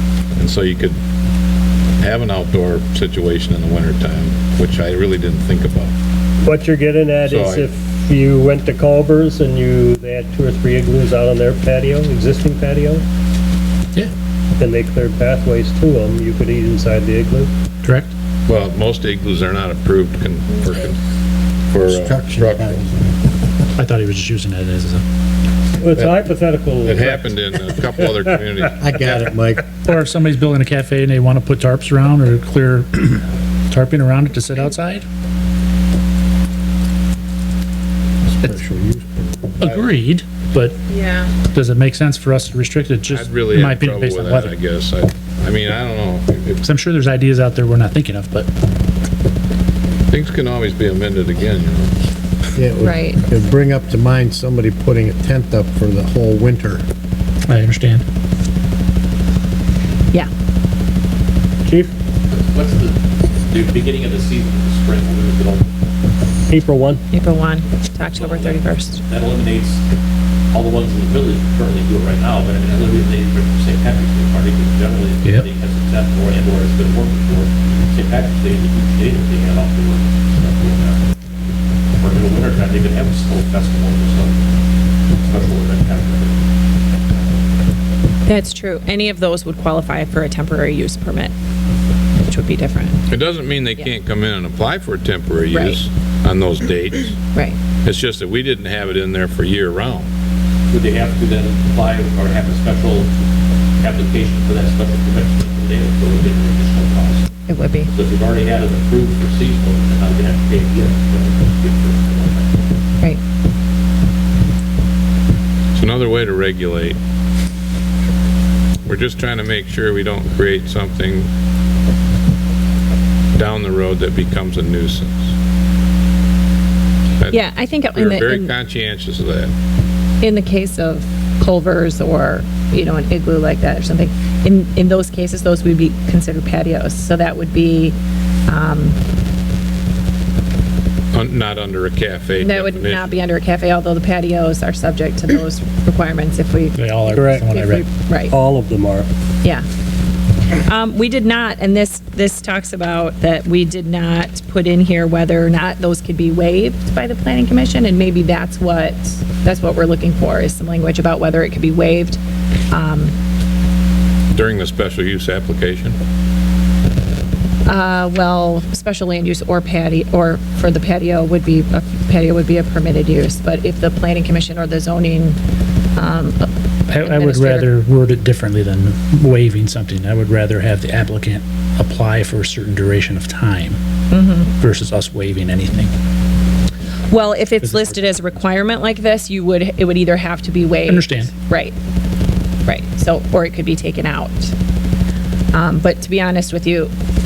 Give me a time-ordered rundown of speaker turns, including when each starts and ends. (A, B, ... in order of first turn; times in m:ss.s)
0:00.4-0:01.0 A
0:02.0-0:05.9 A
0:06.4-0:13.0 B
0:07.2-0:07.7 A
0:14.6-0:17.5 B
0:17.8-0:18.1 C
0:18.5-0:21.0 A
0:21.7-0:22.8 A
0:21.8-0:23.1 D
0:23.8-0:25.0 C
0:25.8-0:27.4 B
0:26.8-0:28.9 A
0:28.8-0:29.7 D
0:29.8-0:35.0 C
0:38.3-0:39.6 D
0:39.6-0:40.8 C
0:40.9-0:41.3 E
0:41.5-0:44.5 C
0:43.1-0:46.6 A
0:46.6-0:48.5 C
0:50.1-0:51.9 A
0:52.6-0:56.8 D
0:52.8-0:53.2 E
0:57.5-0:58.0 C
1:01.6-1:01.9 B
1:02.3-1:05.7 F
1:06.5-1:07.0 B
1:07.1-1:09.0 E
1:08.1-1:09.8 F
1:10.5-1:21.1 F
1:22.0-1:24.4 F
1:25.2-1:26.4 F
1:28.2-1:31.3 E
1:32.2-1:33.1 E
1:33.1-1:37.2 A
1:35.5-1:35.8 E
1:37.8-1:40.1 A
1:40.7-1:43.1 F
1:43.8-1:47.2 F
1:47.5-1:47.9 E
1:47.9-1:52.6 F
1:55.7-1:57.0 A
1:58.8-2:01.3 A
2:03.3-2:05.3 A
2:07.2-2:09.5 A
2:07.3-2:08.5 E
2:10.2-2:18.0 E
2:18.5-2:19.0 E
2:21.1-2:23.1 A
2:22.4-2:28.3 E
2:26.8-2:27.9 C
2:27.1-2:27.5 B
2:28.3-2:29.1 B
2:30.6-2:42.2 E
2:42.7-2:43.1 E
2:44.3-2:46.0 A
2:47.7-2:55.4 E
2:56.0-2:57.8 E
2:56.9-3:03.8 C
3:04.1-3:04.5 E
3:04.6-3:05.9 C
3:07.1-3:11.7 E
3:07.6-3:08.3 C
3:10.9-3:11.3 C
3:12.6-3:14.5 E
3:15.5-3:16.9 E